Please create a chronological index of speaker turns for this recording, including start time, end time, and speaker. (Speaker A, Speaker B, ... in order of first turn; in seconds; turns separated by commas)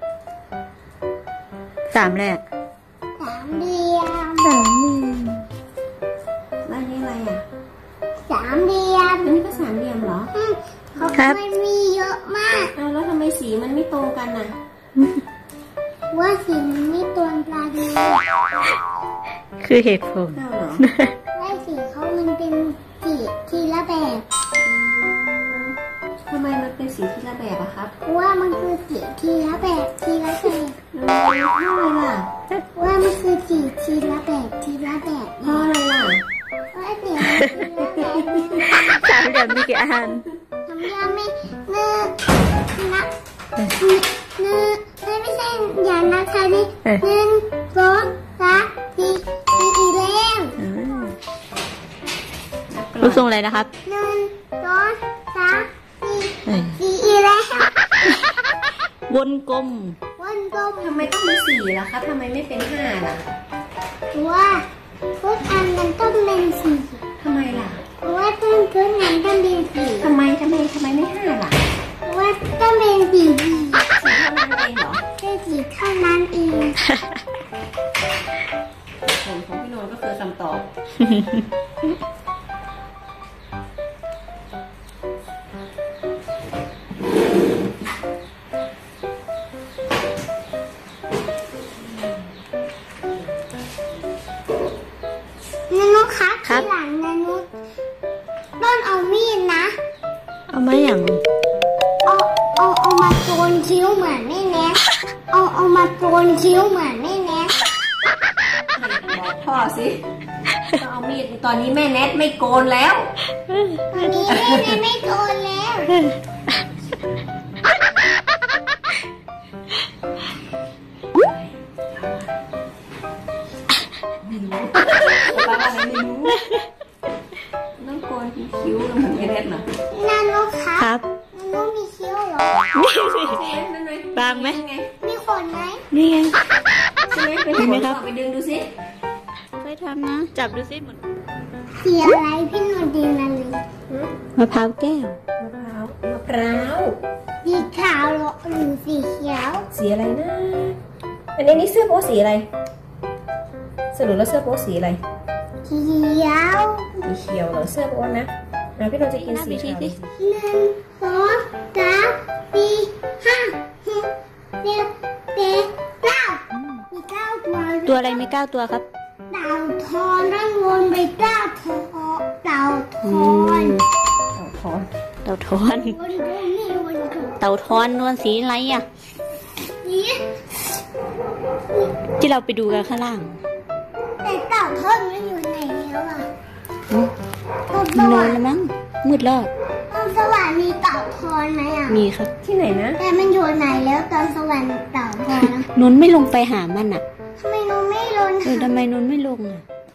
Speaker A: 1.9-2.4, Speaker B: 3.2-4.6, Speaker A: 4.4-5.4, Speaker C: 6.6-7.4, Speaker B: 8.2-9.3, Speaker C: 9.2-10.3, Speaker B: 10.3-12.7, Speaker C: 12.8-14.5, Speaker B: 16.1-18.2, Speaker A: 19.6-21.1, Speaker C: 20.3-20.8, Speaker B: 21.3-24.2, Speaker C: 24.6-27.9, Speaker B: 28.0-30.8, Speaker C: 30.9-32.3, Speaker B: 32.8-35.7, Speaker C: 35.4-36.2, Speaker B: 36.7-39.1, Speaker C: 38.0-38.7, Speaker A: 38.7-40.3, Speaker B: 40.6-43.1, Speaker B: 43.7-50.6, Speaker A: 50.6-51.2, Speaker C: 52.7-53.2, Speaker A: 53.0-53.7, Speaker B: 53.8-57.9, Speaker A: 56.5-56.8, Speaker A: 59.1-60.0, Speaker B: 60.2-61.1, Speaker C: 60.8-63.2, Speaker B: 64.1-64.6, Speaker B: 65.2-67.0, Speaker C: 67.2-67.8, Speaker B: 68.0-70.1, Speaker C: 70.0-71.6, Speaker B: 72.0-73.9, Speaker C: 74.0-75.0, Speaker B: 75.2-76.8, Speaker C: 79.1-80.7, Speaker B: 95.7-97.5, Speaker B: 98.6-99.7, Speaker A: 100.5-101.2, Speaker B: 102.0-107.5, Speaker C: 108.7-110.0, Speaker C: 110.7-113.1, Speaker B: 113.9-116.0, Speaker C: 114.2-114.8, Speaker C: 121.1-122.3, Speaker C: 124.2-126.4, Speaker C: 127.8-129.7, Speaker B: 129.9-132.6, Speaker A: 130.8-131.0, Speaker A: 132.7-133.6, Speaker C: 133.3-134.9, Speaker A: 134.1-134.6, Speaker B: 135.0-135.8, Speaker A: 135.9-136.3, Speaker C: 137.1-138.7, Speaker A: 137.6-138.0, Speaker A: 139.6-141.0, Speaker B: 141.8-143.6, Speaker A: 144.3-145.2, Speaker C: 145.4-147.0, Speaker B: 147.4-149.7, Speaker C: 149.7-150.8, Speaker C: 151.4-152.5, Speaker C: 153.9-155.0, Speaker B: 155.6-157.1, Speaker C: 157.0-160.1, Speaker A: 159.2-160.0, Speaker B: 160.2-168.2, Speaker A: 167.8-168.9, Speaker B: 169.3-173.8, Speaker A: 173.0-173.8, Speaker C: 174.3-174.9, Speaker A: 175.2-175.9, Speaker B: 175.8-177.4, Speaker A: 177.4-178.8, Speaker B: 179.7-180.2, Speaker A: 182.2-183.4, Speaker B: 184.2-186.3, Speaker B: 187.7-188.5, Speaker A: 187.9-189.5, Speaker B: 189.9-192.0, Speaker A: 191.9-192.3, Speaker C: 192.4-193.0, Speaker B: 193.0-195.7, Speaker A: 195.7-197.0, Speaker B: 197.4-198.8, Speaker A: 198.4-199.6